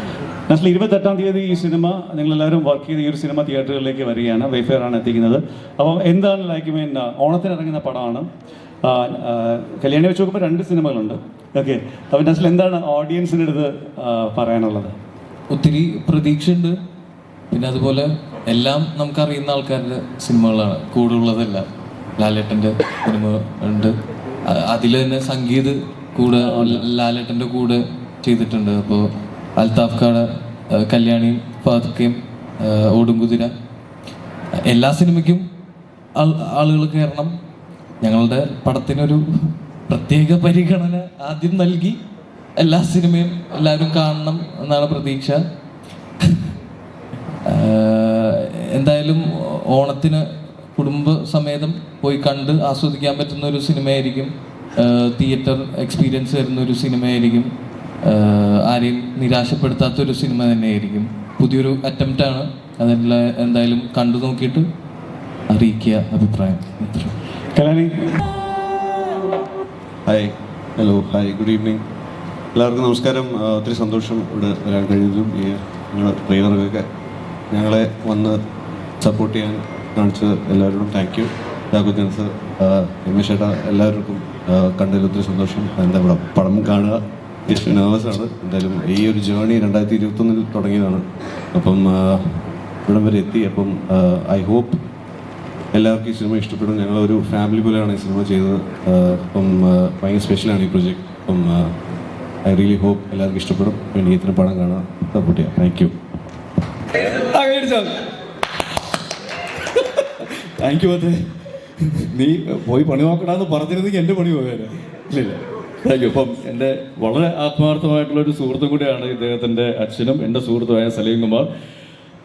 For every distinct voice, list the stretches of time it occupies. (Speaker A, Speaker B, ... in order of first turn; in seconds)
Speaker A: 0.5-8.3, 8.8-14.9, 26.4-26.8, 67.5-68.2
Speaker B: 15.5-16.7, 17.5-21.6, 22.2-33.5, 34.7-35.4, 36.1-37.3, 38.0-42.0, 42.6-45.4, 47.5-57.5, 58.0-64.7, 65.5-67.2
Speaker C: 70.0-71.8, 72.5-76.9, 77.5-78.4, 79.0-94.8, 95.7-101.7, 102.4-105.9
Speaker D: 106.9-107.9, 110.4-111.2, 111.8-121.5